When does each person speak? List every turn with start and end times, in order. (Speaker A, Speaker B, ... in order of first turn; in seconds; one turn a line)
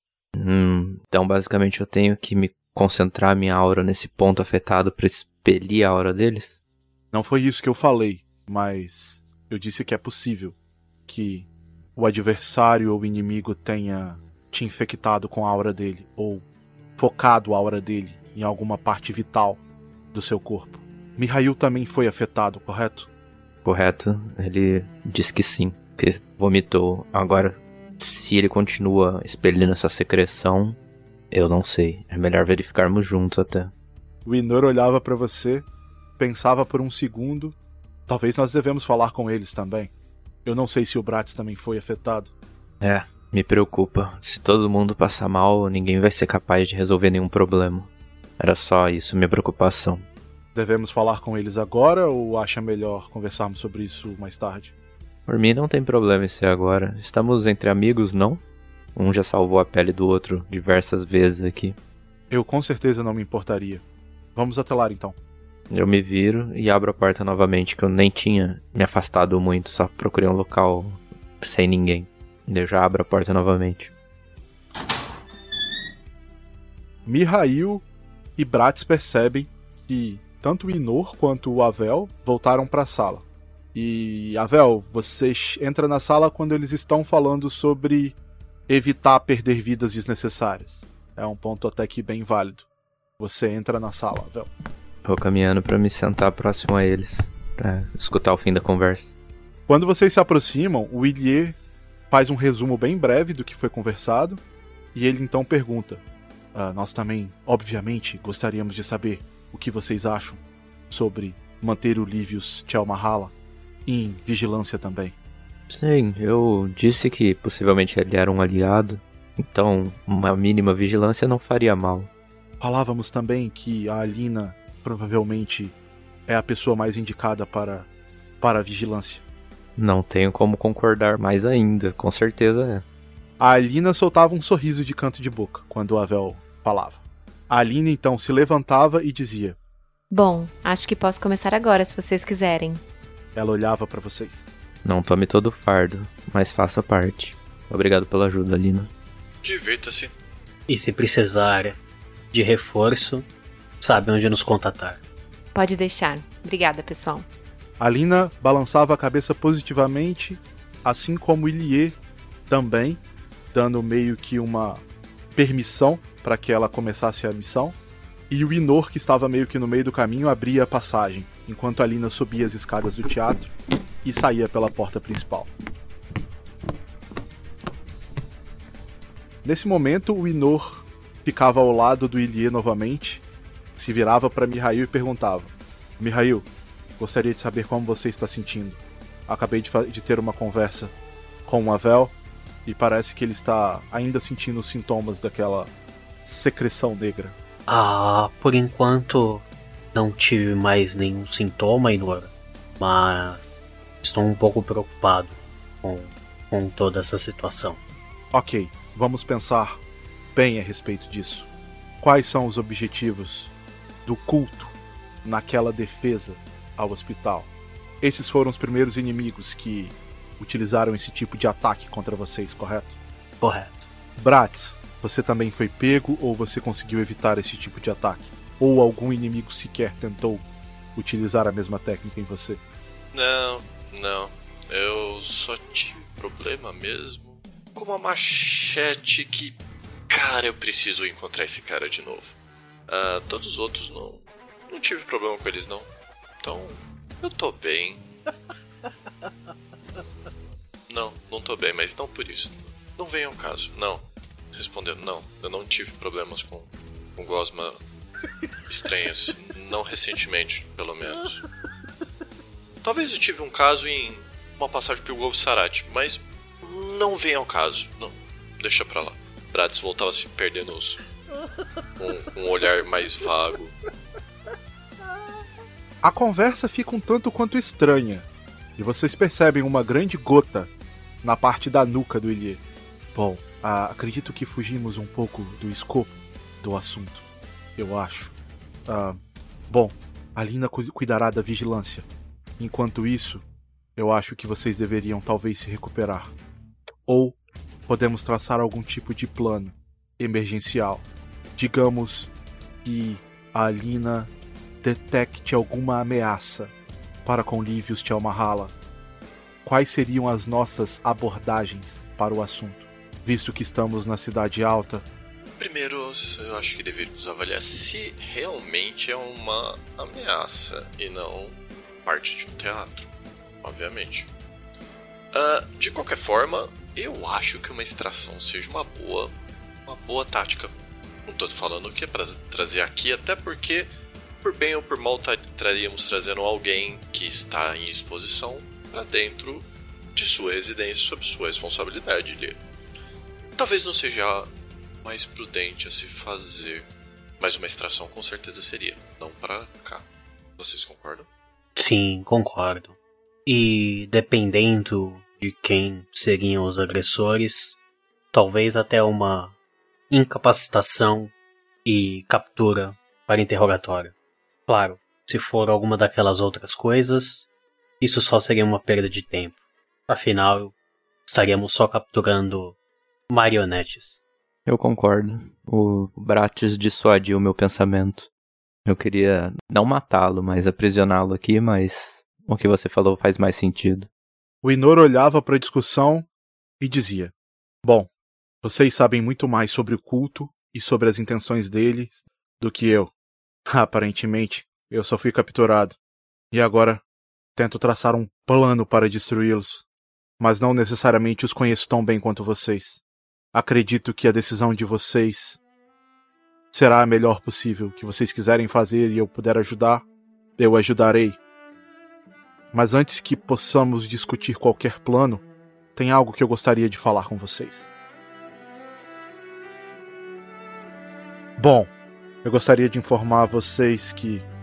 Speaker A: 0.3-6.6
Speaker B: 7.1-10.6
Speaker B: 11.1-16.4
Speaker B: 17.0-19.6
Speaker B: 20.1-23.1
Speaker A: 23.6-30.8
Speaker A: 31.3-33.7
Speaker B: 34.2-35.7
Speaker B: 36.2-37.6
Speaker B: 38.1-39.9
Speaker B: 40.5-42.3
Speaker A: 42.8-50.1
Speaker B: 50.5-54.7
Speaker A: 55.3-58.4
Speaker A: 59.0-61.8
Speaker B: 62.3-63.8
Speaker B: 64.3-65.2
Speaker A: 65.7-73.9
Speaker B: 77.1-77.8
Speaker B: 78.4-88.2
Speaker B: 88.7-92.7
Speaker B: 93.2-94.5
Speaker A: 95.0-99.2
Speaker B: 99.7-101.6
Speaker B: 102.1-104.4
Speaker B: 105.0-106.0
Speaker B: 106.5-113.3
Speaker B: 113.9-115.2
Speaker A: 115.7-122.1
Speaker B: 122.6-125.8
Speaker B: 126.3-127.9
Speaker B: 128.4-129.2
Speaker A: 129.8-132.8
Speaker B: 133.4-139.6
Speaker C: 140.1-142.8
Speaker B: 143.3-144.5
Speaker A: 144.8-148.9
Speaker D: 149.4-150.1
Speaker E: 150.7-151.8
Speaker E: 152.3-153.3
Speaker E: 153.8-155.0
Speaker C: 155.5-157.3
Speaker B: 157.8-162.0
Speaker B: 162.5-163.0
Speaker B: 163.5-164.8
Speaker B: 165.4-167.8
Speaker B: 168.3-173.5
Speaker B: 174.0-175.5
Speaker B: 179.4-183.2
Speaker B: 183.8-186.5
Speaker B: 187.0-190.9
Speaker B: 191.5-195.7
Speaker B: 196.2-197.3
Speaker E: 197.7-207.8
Speaker B: 208.3-209.8
Speaker B: 210.3-211.5
Speaker B: 212.0-213.5
Speaker B: 214.1-214.7
Speaker B: 215.2-217.5
Speaker B: 218.0-223.0
Speaker E: 223.4-223.8
Speaker B: 224.2-232.6
Speaker D: 233.1-242.4
Speaker D: 242.9-245.9
Speaker D: 246.4-248.1
Speaker D: 250.9-257.8
Speaker D: 258.7-261.4
Speaker D: 262.8-271.0
Speaker D: 272.0-273.7
Speaker B: 276.0-280.7
Speaker B: 281.2-282.6
Speaker B: 283.1-287.2
Speaker B: 287.8-288.3
Speaker B: 288.9-292.1
Speaker B: 292.6-293.4
Speaker B: 294.0-296.3
Speaker B: 297.1-301.1
Speaker B: 301.6-302.3
Speaker B: 302.8-304.3
Speaker B: 304.8-306.7
Speaker B: 307.3-308.7
Speaker B: 309.6-315.1
Speaker D: 315.4-323.1
Speaker D: 323.6-324.3
Speaker D: 325.3-329.4
Speaker D: 329.9-333.9
Speaker D: 334.4-342.6
Speaker D: 343.6-344.5
Speaker D: 345.0-346.9
Speaker D: 347.4-350.1
Speaker D: 350.6-351.3
Speaker E: 351.8-357.8
Speaker E: 358.3-359.6
Speaker E: 360.1-361.3
Speaker E: 361.9-364.1
Speaker E: 364.7-367.5
Speaker E: 368.0-370.7
Speaker E: 371.3-372.8
Speaker E: 373.3-374.2
Speaker A: 374.7-378.3
Speaker A: 378.9-384.1
Speaker B: 384.6-386.3
Speaker B: 386.8-388.1
Speaker B: 388.6-393.1
Speaker B: 393.7-396.0
Speaker B: 396.5-397.0
Speaker B: 397.6-399.9
Speaker B: 400.4-403.0
Speaker B: 403.5-405.6
Speaker B: 406.7-410.1
Speaker B: 410.6-411.4
Speaker B: 412.7-415.4
Speaker B: 416.0-417.9
Speaker B: 421.6-421.9
Speaker B: 422.4-424.4